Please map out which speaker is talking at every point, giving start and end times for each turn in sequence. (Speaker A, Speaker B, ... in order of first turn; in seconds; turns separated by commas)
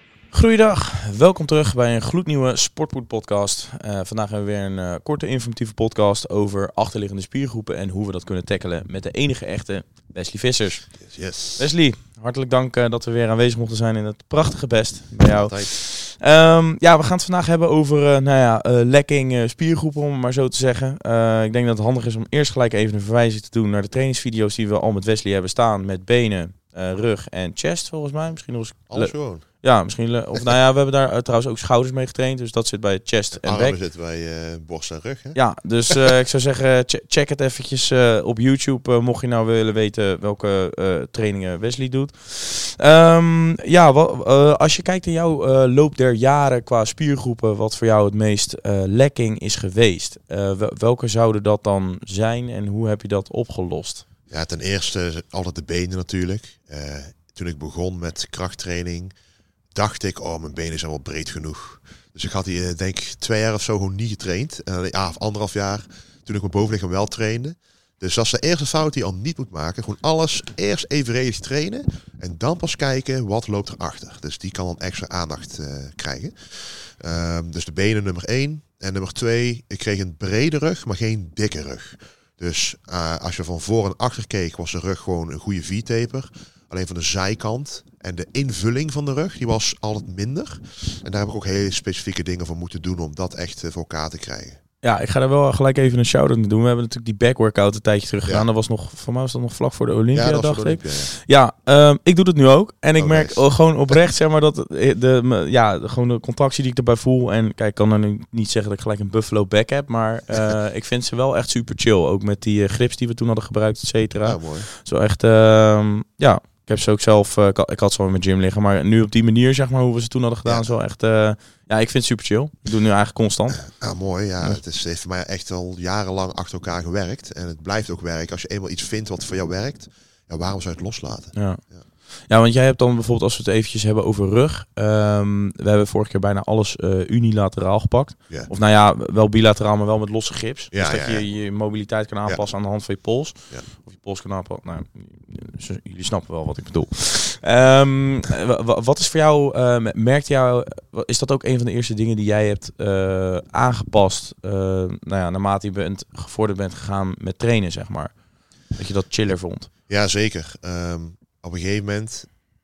Speaker A: 0.3-10.9, Speaker B: 11.0-11.7, Speaker A: 11.6-33.8, Speaker B: 15.2-15.7, Speaker B: 28.9-29.4, Speaker B: 33.3-35.4, Speaker A: 35.3-54.0, Speaker B: 54.3-59.1, Speaker B: 59.7-94.6, Speaker A: 94.8-123.6, Speaker B: 100.1-101.1, Speaker B: 103.0-103.4, Speaker B: 114.2-114.7, Speaker B: 120.5-120.7, Speaker B: 123.5-131.8, Speaker A: 131.3-131.6, Speaker A: 132.3-158.1, Speaker B: 140.7-141.2, Speaker A: 158.7-159.7, Speaker B: 159.9-162.3